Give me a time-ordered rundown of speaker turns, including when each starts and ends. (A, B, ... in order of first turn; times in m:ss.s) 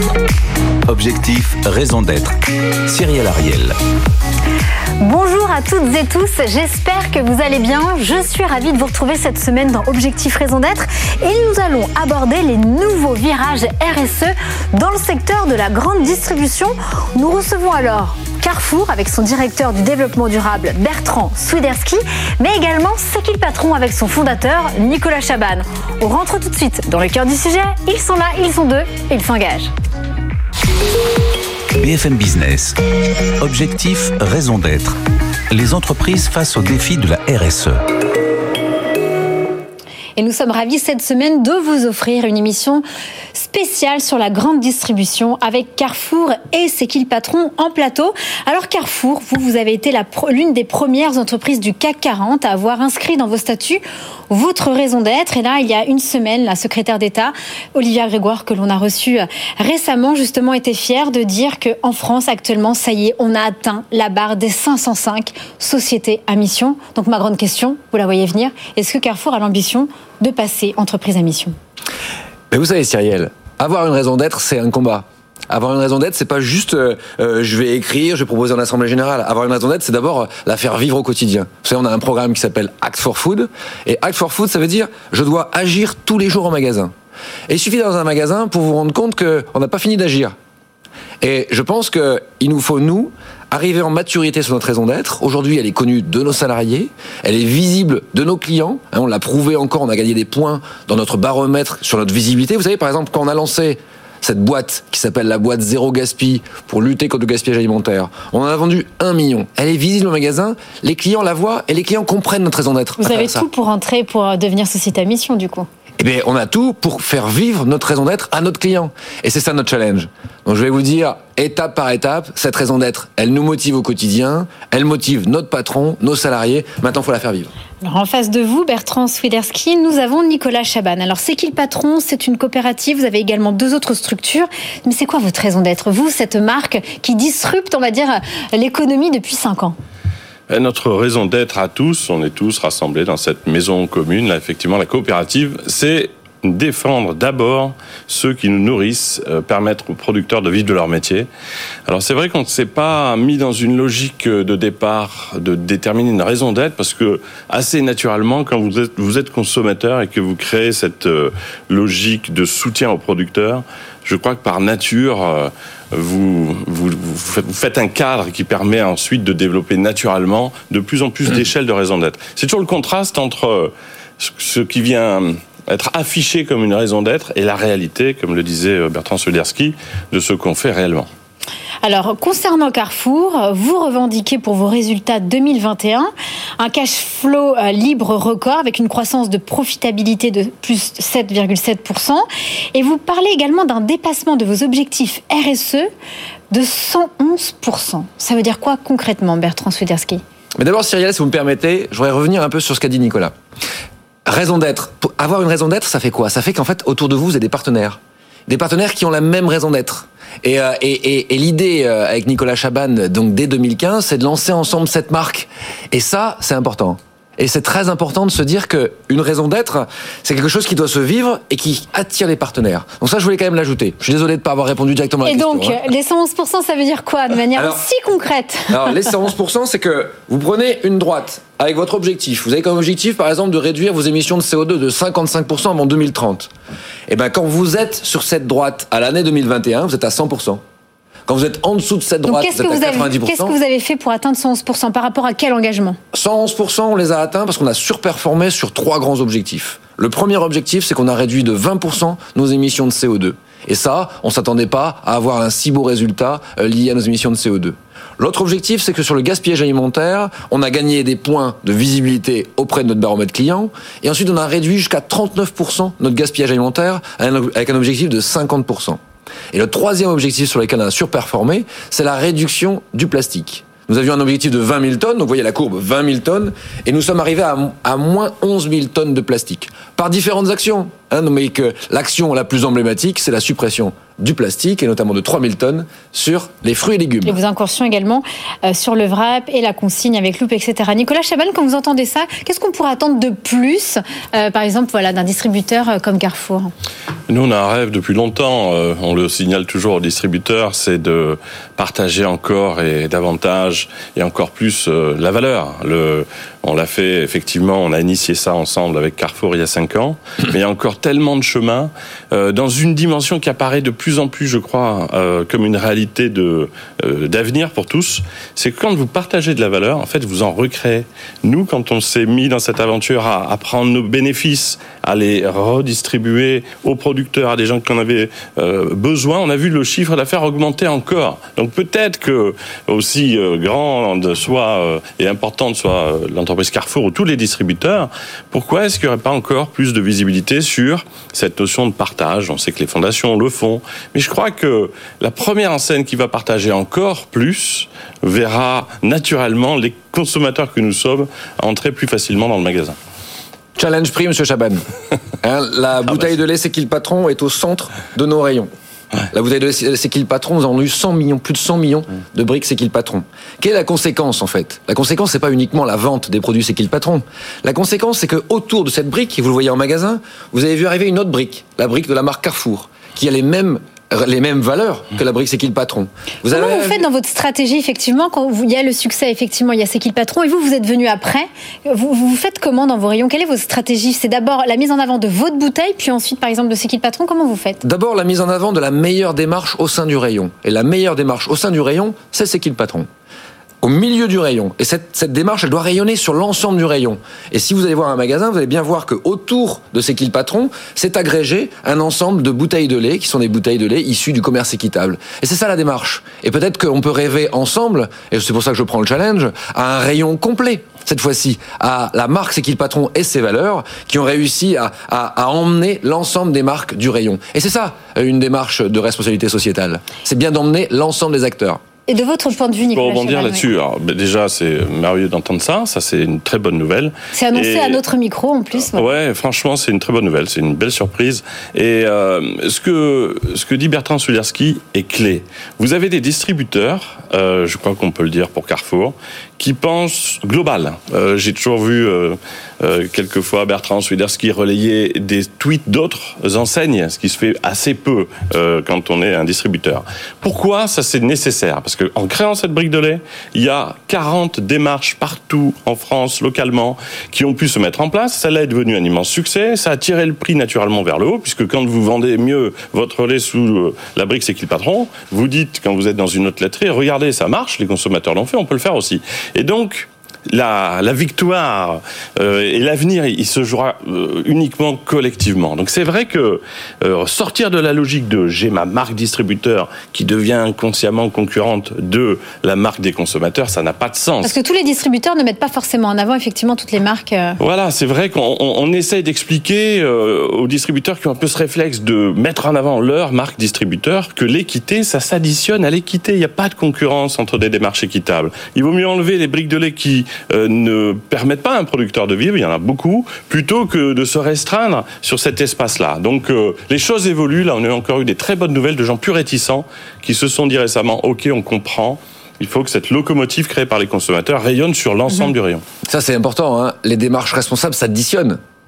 0:00.9-0:02.4 A
0:02.9-0:03.8 A
0:05.0-0:29.7 B
0:31.8-0:32.8 A
0:33.4-0:35.0 A
0:35.5-0:37.8 A
0:40.2-1:11.6 B
1:12.5-1:26.9 C
1:27.5-1:30.4 C
1:31.2-1:53.4 C
1:53.0-1:55.7 B
1:56.0-2:07.5 C
2:07.8-2:19.8 B
2:20.5-2:31.3 D
2:31.9-3:01.1 D
3:01.8-3:15.9 B
3:16.5-3:20.2 B
3:20.6-3:23.3 C
3:24.3-3:45.8 C
3:45.2-3:49.1 B
3:47.6-3:47.8 C
3:48.7-3:56.5 C
3:57.1-4:00.6 C
4:01.3-4:03.6 C
4:02.3-4:06.0 B
4:06.1-4:29.0 C
4:29.5-4:47.4 C
4:47.2-4:56.7 B
4:57.3-5:53.0 D
5:53.8-5:54.8 C
5:55.4-5:58.7 C
5:59.3-6:17.1 C
6:16.5-6:27.8 B
6:27.8-6:33.1 C
6:33.8-7:01.8 C
7:02.1-7:03.7 B
7:02.9-7:08.0 D
7:07.3-7:09.0 B
7:08.9-8:04.5 D
8:04.4-8:07.6 B
8:07.6-8:35.8 D
8:36.1-8:38.6 C